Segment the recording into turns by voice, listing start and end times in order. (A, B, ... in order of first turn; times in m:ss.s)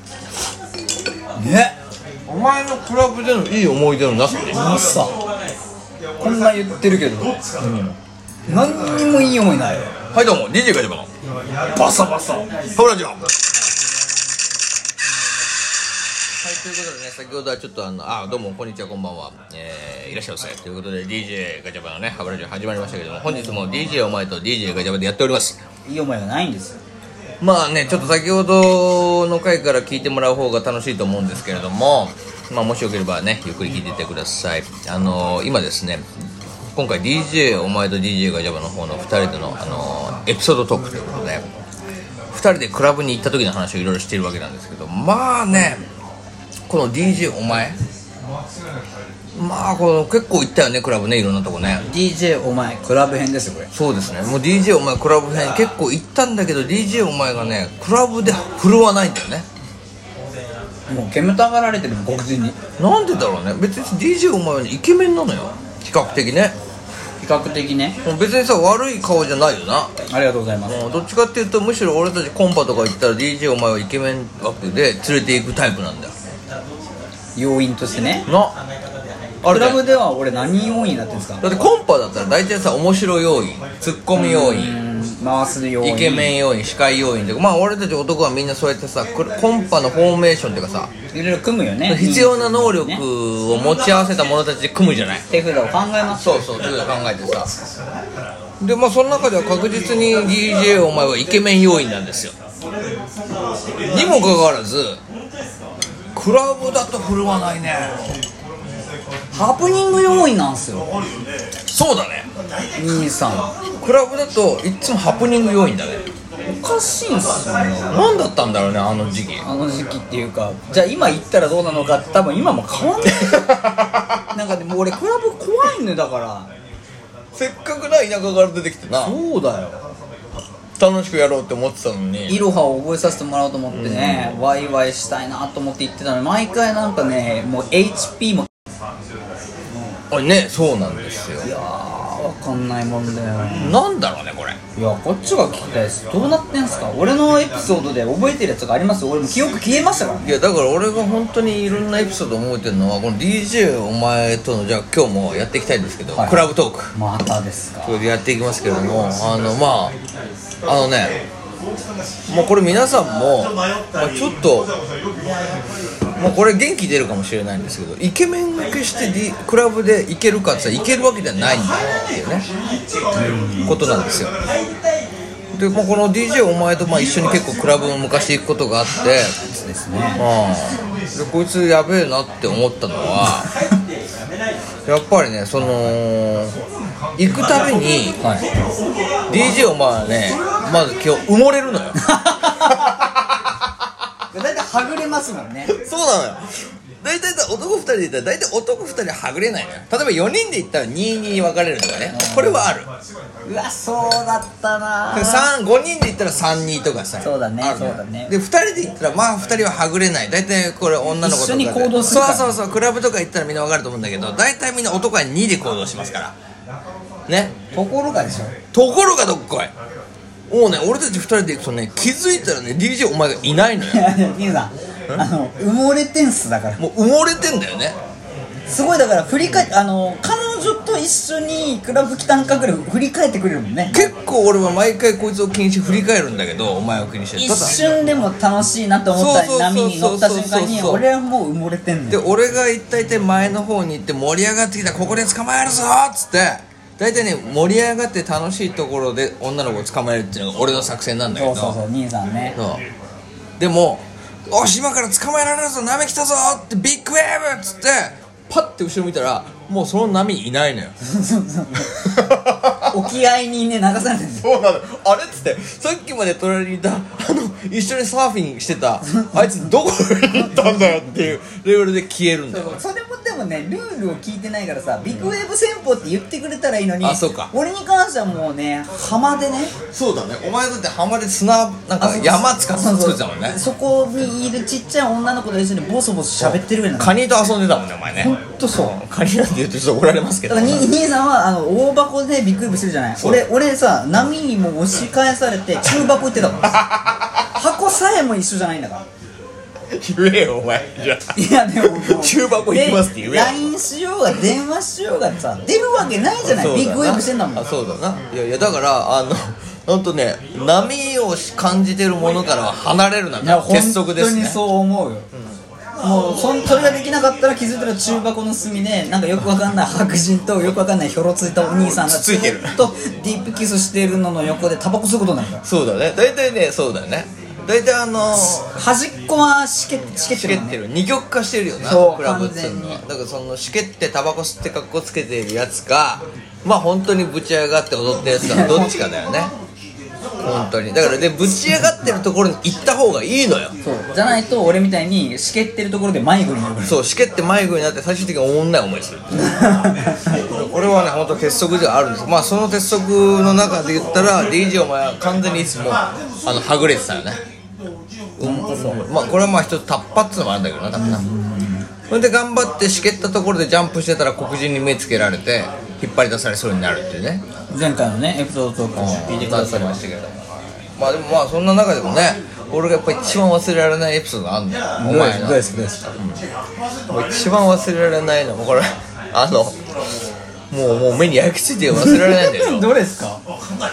0:01.4-0:01.8 A
0:02.3-0:04.6 B
0:04.5-0:05.2 A
0:06.2-0:07.4 A
0:07.6-0:08.0 B
0:08.5-0:09.9 A
0:10.1-0:11.1 B
0:11.7-0:13.2 B
0:16.4-0:25.6 B
0:23.3-0:23.6 A
0:25.8-0:26.8 A
0:27.4-0:36.1 B
0:36.8-0:41.4 B
0:42.3-0:45.8 B
0:46.7-0:47.8 B
0:49.4-0:51.8 B
0:51.9-0:53.7 A
0:53.7-0:59.5 B
1:00.9-1:02.6 A
1:02.8-1:06.6 B
1:07.2-1:08.0 A
1:08.0-1:09.9 B
1:10.1-1:10.8 A
1:10.7-1:16.1 B
1:17.4-1:18.3 A
1:18.3-1:18.6 B
1:19.4-1:19.8 B
1:19.5-1:21.4 A
1:21.4-1:24.8 B
1:24.2-1:26.3 A
1:25.8-1:30.9 B
1:31.1-1:33.0 A
1:31.9-1:35.2 B
1:35.3-1:36.4 A
1:36.2-1:37.5 B
1:38.6-1:42.3 B
1:43.9-1:45.0 B
1:46.2-1:48.0 B
1:49.3-1:50.9 A
1:51.7-1:52.3 B
1:52.8-1:53.5 A
1:53.8-1:56.0 B
1:56.5-1:57.9 A
1:57.9-1:59.4 B
1:59.4-2:03.2 A
2:03.1-2:04.0 B
2:04.3-2:06.5 A
2:07.4-2:09.2 B
2:09.0-2:09.8 A
2:10.8-2:12.4 B
2:12.3-2:18.5 A
2:13.7-2:14.4 B
2:20.1-2:21.5 B
2:21.4-2:23.8 A
2:23.6-2:24.6 B
2:24.8-2:30.3 A
2:30.2-2:36.9 B
2:36.2-2:38.0 A
2:37.8-2:40.0 B
2:40.6-2:41.2 B
2:42.3-2:44.7 B
2:46.2-2:52.5 B
2:53.2-2:53.8 A
2:53.7-2:54.3 B
2:55.5-2:59.3 B
2:59.5-3:00.2 A
3:00.2-3:03.5 B
3:04.9-3:06.6 B
3:07.2-3:08.2 B
3:08.2-3:08.5 A
3:09.3-3:12.0 B
3:12.0-3:13.0 A
3:14.3-3:15.7 A
3:15.7-3:16.4 B
3:17.0-3:22.9 B
3:22.1-3:22.7 A
3:23.5-3:25.5 A
3:25.1-3:36.3 B
3:27.2-3:28.3 A
3:31.2-3:32.6 A
3:37.3-3:37.5 B
3:37.7-3:38.5 A
3:38.7-3:39.7 B
3:40.5-3:44.1 B
3:43.8-3:46.8 A
3:46.8-3:48.0 B
3:48.7-3:54.1 A
3:53.9-3:57.8 B
3:57.4-4:02.2 A
3:59.1-4:01.0 B
4:02.1-4:11.8 B
4:11.3-4:12.6 A
4:12.6-4:12.8 B
4:13.6-4:20.9 B
4:21.0-4:21.9 A
4:21.9-4:23.0 B
4:22.9-4:24.5 A
4:24.4-4:32.8 B
4:29.0-4:29.7 A
4:30.4-4:31.0 A
4:32.5-4:39.7 A
4:37.0-4:37.5 B
4:39.9-4:43.6 B
4:42.0-4:47.2 A
4:46.4-4:50.9 B
4:48.2-4:48.9 A
4:50.5-4:56.8 A
4:53.2-4:53.5 B
4:57.6-4:59.1 A
4:59.9-5:03.7 B
5:01.4-5:07.7 A
5:06.4-5:14.6 B
5:13.4-5:15.3 A
5:16.0-5:25.6 A
5:21.8-5:22.8 B
5:25.6-5:28.7 B
5:28.7-5:30.8 A
5:29.9-5:39.5 B
5:31.8-5:33.0 A
5:38.4-5:39.0 A
5:40.4-5:43.7 B
5:43.8-5:47.0 A
5:46.8-5:49.5 B
5:49.3-5:50.4 A
5:50.5-5:57.4 B
5:58.4-6:01.2 B
5:58.4-5:59.0 A
6:01.0-6:01.9 A
6:02.1-6:07.4 B
6:07.7-6:10.0 A
6:09.0-6:10.5 B
6:11.0-6:16.4 B
6:15.0-6:16.0 A
6:17.1-6:19.8 B
6:20.7-6:22.9 B
6:21.9-6:23.4 A